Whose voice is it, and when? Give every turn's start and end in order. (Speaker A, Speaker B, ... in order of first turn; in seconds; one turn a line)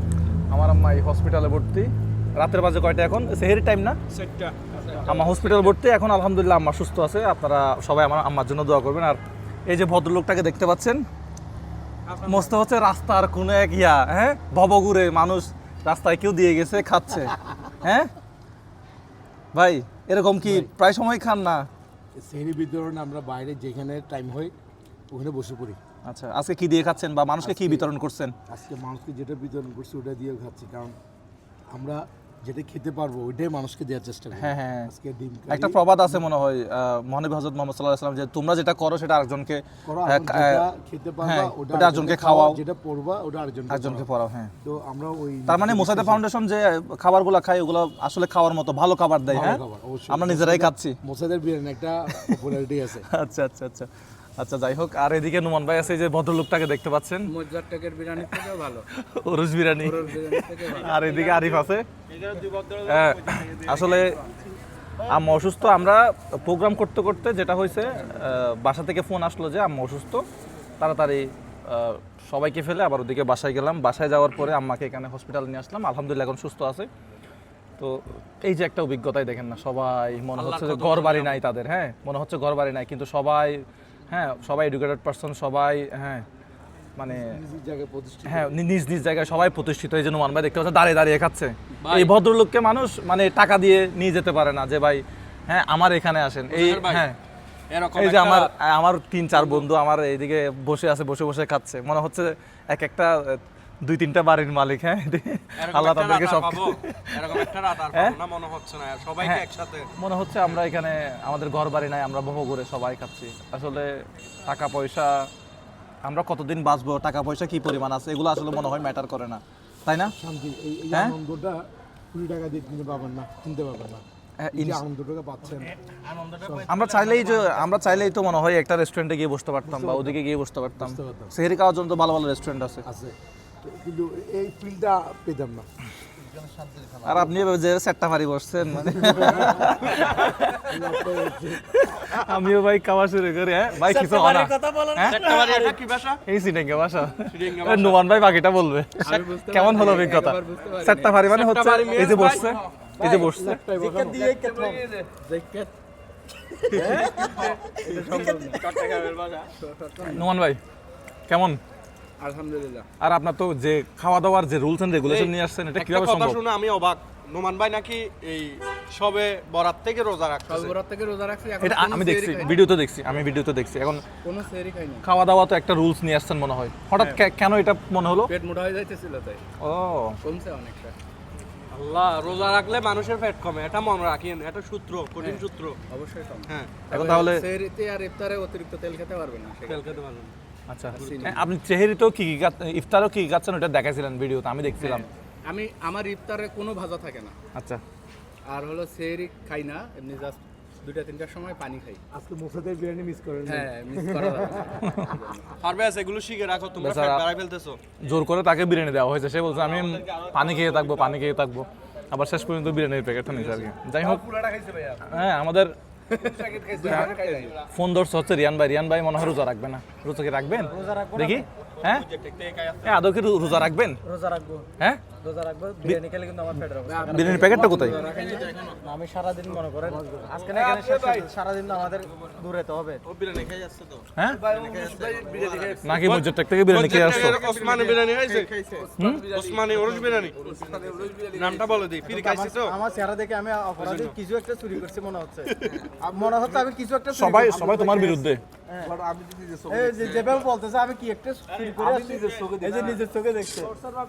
Speaker A: 0.5-4.0
Speaker B: 4.1-5.7
Speaker A: 5.0-11.0
Speaker B: 12.1-12.4
Speaker A: 12.2-18.1
Speaker A: 19.5-21.7
Speaker C: 20.4-20.7
Speaker C: 22.1-24.5
Speaker C: 25.1-25.8
Speaker A: 26.1-28.3
Speaker C: 27.4-27.9
Speaker C: 28.5-30.9
Speaker C: 31.7-36.2
Speaker A: 34.4-34.9
Speaker A: 35.5-40.6
Speaker C: 39.8-44.1
Speaker A: 41.2-42.6
Speaker A: 43.7-44.5
Speaker C: 44.6-46.2
Speaker A: 45.5-51.0
Speaker C: 49.3-53.1
Speaker A: 52.1-52.4
Speaker A: 53.1-57.3
Speaker D: 57.3-58.9
Speaker A: 58.3-61.9
Speaker D: 59.8-61.0
Speaker B: 61.0-64.1
Speaker A: 62.8-64.2
Speaker A: 65.0-70.2
Speaker A: 70.8-76.9
Speaker A: 77.8-86.2
Speaker B: 80.3-81.4
Speaker A: 87.0-87.3
Speaker C: 87.1-88.6
Speaker A: 88.3-97.2
Speaker B: 91.8-92.1
Speaker B: 96.5-97.0
Speaker B: 97.7-98.5
Speaker A: 97.9-108.2
Speaker B: 105.6-109.9
Speaker A: 110.0-115.3
Speaker A: 116.0-120.1
Speaker C: 120.2-126.8
Speaker A: 124.4-124.8
Speaker A: 126.7-132.8
Speaker C: 129.7-130.2
Speaker C: 130.8-131.3
Speaker C: 132.8-135.7
Speaker A: 137.0-140.8
Speaker C: 139.0-139.9
Speaker C: 140.5-141.8
Speaker A: 141.7-145.2
Speaker E: 143.8-145.8
Speaker B: 145.0-146.2
Speaker A: 146.2-153.6
Speaker B: 147.2-148.1
Speaker D: 149.0-151.2
Speaker B: 151.2-152.6
Speaker D: 151.9-152.6
Speaker E: 153.0-154.8
Speaker C: 153.0-154.2
Speaker D: 153.2-155.7
Speaker D: 156.6-158.7
Speaker E: 156.7-159.3
Speaker B: 158.4-159.4
Speaker D: 159.6-160.2
Speaker A: 160.0-160.6
Speaker A: 161.3-161.6
Speaker D: 162.2-162.9
Speaker A: 163.0-166.4
Speaker B: 165.0-170.8
Speaker D: 170.4-172.7
Speaker A: 171.6-174.0
Speaker D: 174.2-175.1
Speaker A: 175.0-178.3
Speaker D: 178.2-179.4
Speaker A: 179.6-180.2
Speaker D: 180.2-180.9
Speaker B: 181.7-185.8
Speaker D: 185.2-189.9
Speaker B: 186.5-186.8
Speaker A: 186.9-187.4
Speaker B: 189.7-190.3
Speaker A: 190.7-195.1
Speaker D: 190.9-191.4
Speaker B: 190.9-191.3
Speaker D: 194.8-197.3
Speaker A: 197.5-197.8
Speaker D: 198.5-202.0
Speaker C: 202.1-204.8
Speaker D: 203.4-205.5
Speaker A: 204.8-205.1
Speaker B: 205.6-207.8
Speaker A: 206.8-207.2
Speaker A: 208.0-214.3
Speaker A: 215.0-215.7
Speaker D: 216.2-217.5
Speaker A: 216.8-217.1
Speaker A: 217.6-222.1
Speaker E: 220.7-221.4
Speaker B: 222.0-222.8
Speaker A: 222.8-224.0
Speaker E: 224.0-224.7
Speaker E: 225.2-233.0
Speaker D: 226.8-228.8
Speaker A: 227.1-228.0
Speaker B: 228.3-228.7
Speaker B: 230.5-231.3
Speaker B: 233.0-238.6
Speaker A: 234.2-234.4
Speaker E: 234.4-235.8
Speaker C: 234.5-235.8
Speaker D: 234.6-235.8
Speaker A: 235.8-237.4
Speaker E: 237.2-238.9
Speaker A: 239.0-239.3
Speaker D: 239.0-241.8
Speaker B: 239.2-240.4
Speaker C: 240.4-241.6
Speaker B: 241.2-242.8
Speaker E: 242.0-248.9
Speaker B: 243.8-244.2
Speaker A: 247.1-248.4
Speaker B: 249.0-250.5
Speaker E: 249.7-253.7
Speaker B: 251.5-253.0